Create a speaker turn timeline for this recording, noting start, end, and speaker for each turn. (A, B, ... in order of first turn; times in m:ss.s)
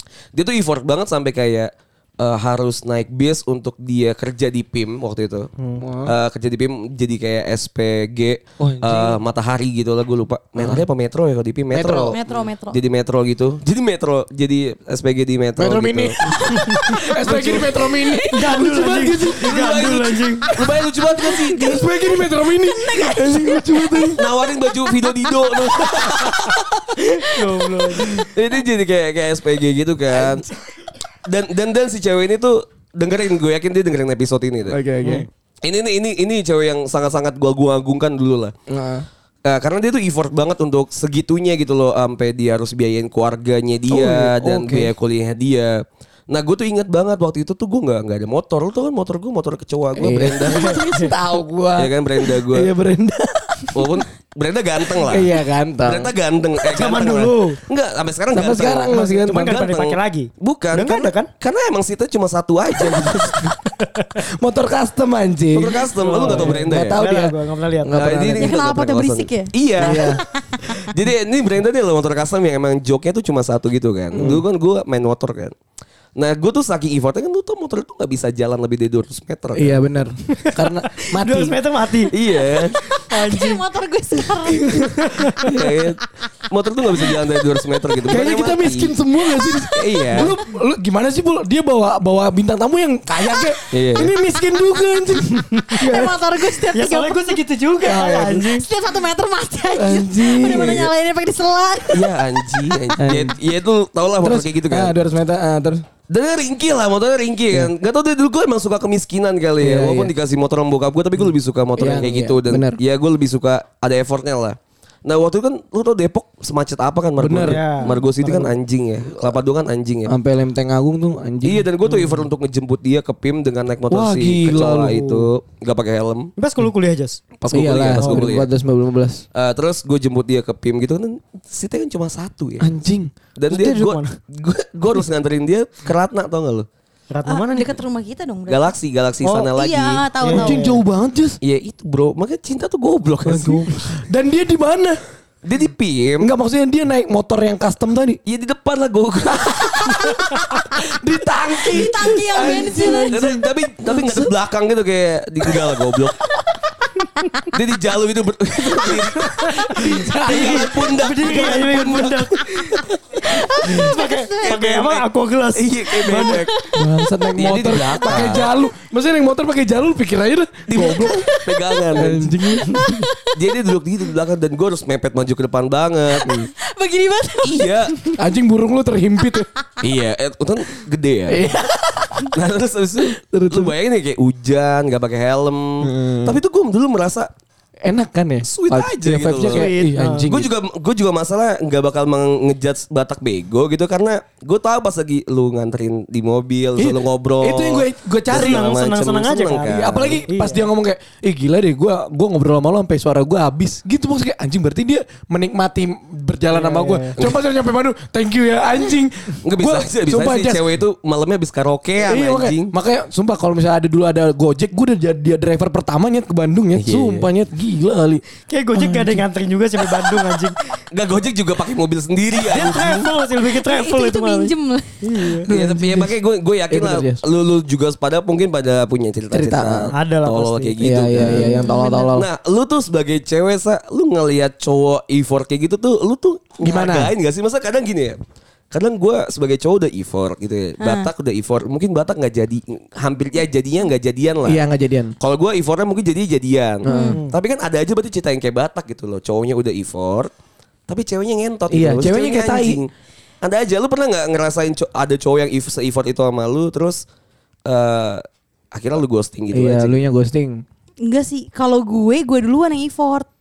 0:00.3-0:05.5 A
0:05.8-0:06.1 B
0:06.0-0:12.2 A
0:08.6-0:09.2 B
0:10.6-0:10.8 B
0:11.7-0:12.2 B
0:12.1-0:12.8 C
0:12.7-0:16.2 A
0:15.6-0:19.8 B
0:16.4-0:17.6 D
0:17.3-0:18.3 C
0:17.3-0:17.6 A
0:18.3-0:20.5 D
0:19.4-0:21.9 A
0:21.3-0:24.1 C
0:21.5-0:24.3 B
0:24.1-0:26.8 A
0:24.9-0:26.4 C
0:27.2-0:28.3 D
0:28.2-0:30.5 A
0:31.2-0:34.8 A
0:34.7-0:35.3 B
0:35.6-0:38.5 A
0:38.7-0:39.1 B
0:39.4-0:50.8 A
0:43.9-0:44.9 B
0:50.0-0:54.0 B
0:50.4-0:51.1 D
0:51.8-0:52.7 A
0:53.7-1:03.6 A
0:55.0-0:56.1 B
0:56.6-0:57.6 D
0:58.3-0:59.6 B
0:58.9-1:01.3 D
1:03.8-1:04.2 D
1:04.3-1:08.6 B
1:05.6-1:07.0 A
1:06.0-1:08.0 D
1:07.9-1:10.2 A
1:08.4-1:09.5 C
1:09.8-1:10.2 B
1:10.7-1:15.6 A
1:14.1-1:14.4 B
1:16.2-1:19.8 A
1:19.6-1:21.6 B
1:20.4-1:22.1 D
1:22.1-1:22.8 A
1:23.0-1:23.6 D
1:23.1-1:25.1 C
1:24.6-1:25.6 D
1:25.4-1:28.9 A
1:28.1-1:35.8 B
1:29.8-1:30.4 A
1:33.7-1:34.1 A
1:35.7-1:42.8 C
1:35.7-1:38.7 D
1:37.8-1:38.4 B
1:39.8-1:40.9 B
1:41.9-1:44.9 A
1:43.0-1:43.4 B
1:44.2-1:45.8 B
1:46.1-2:00.2 A
1:49.6-1:50.1 B
1:51.8-1:52.8 B
1:57.2-1:58.5 B
1:57.4-1:57.9 D
2:00.1-2:02.0 B
2:01.4-2:06.3 A
2:03.9-2:05.2 B
2:06.4-2:07.2 D
2:07.4-2:08.5 A
2:07.5-2:09.2 B
2:08.0-2:08.2 D
2:09.3-2:12.7 A
2:12.6-2:13.1 B
2:13.4-2:16.7 A
2:13.5-2:14.2 D
2:17.1-2:17.7 D
2:17.3-2:18.8 C
2:18.5-2:20.1 A
2:19.2-2:19.5 D
2:19.5-2:20.6 C
2:20.2-2:20.6 D
2:20.3-2:21.4 B
2:21.4-2:23.8 A
2:23.3-2:25.0 B
2:25.4-2:26.3 A
2:26.2-2:28.2 B
2:28.2-2:30.2 A
2:29.4-2:33.3 B
2:31.7-2:33.5 C
2:32.4-2:36.2 A
2:37.5-2:42.8 A
2:39.3-2:42.7 D
2:39.6-2:40.9 B
2:43.3-2:44.5 C
2:43.6-2:46.5 D
2:43.8-2:46.7 A
2:46.2-2:46.8 C
2:46.7-2:51.3 B
2:47.4-2:48.5 A
2:50.7-2:52.3 A
2:51.9-2:53.1 B
2:52.5-2:53.4 C
2:53.3-2:56.4 A
2:56.2-2:58.2 C
2:56.2-2:56.5 B
2:57.4-2:58.0 A
2:58.2-2:59.5 B
2:59.8-3:01.4 A
3:01.3-3:02.3 B
3:02.3-3:07.3 A
3:03.0-3:03.8 B
3:05.8-3:06.4 B
3:07.9-3:10.5 B
3:08.4-3:09.7 A
3:09.5-3:10.3 D
3:10.2-3:20.3 A
3:16.8-3:18.7 B
3:18.3-3:20.6 D
3:19.6-3:30.8 B
3:26.5-3:27.1 D
3:29.4-3:32.7 A
3:32.0-3:38.2 B
3:36.8-3:37.3 A
3:38.5-3:40.6 D
3:38.8-3:39.2 B
3:40.9-3:43.1 A
3:42.4-3:45.5 D
3:43.5-3:45.4 C
3:45.5-3:46.2 B
3:45.5-3:58.2 A
3:46.7-3:47.2 B
3:49.3-3:49.9 B
3:49.9-3:51.2 D
3:50.8-3:52.3 B
3:51.3-3:52.1 C
3:56.6-3:57.1 B
3:58.7-4:04.6 A
4:00.8-4:01.1 C
4:04.4-4:05.1 B
4:05.2-4:10.3 A
4:06.8-4:07.2 B
4:06.9-4:07.2 C
4:10.9-4:12.9 A
4:11.7-4:12.8 B
4:13.4-4:17.0 A
4:17.7-4:20.0 A
4:19.5-4:20.6 B
4:21.0-4:23.3 C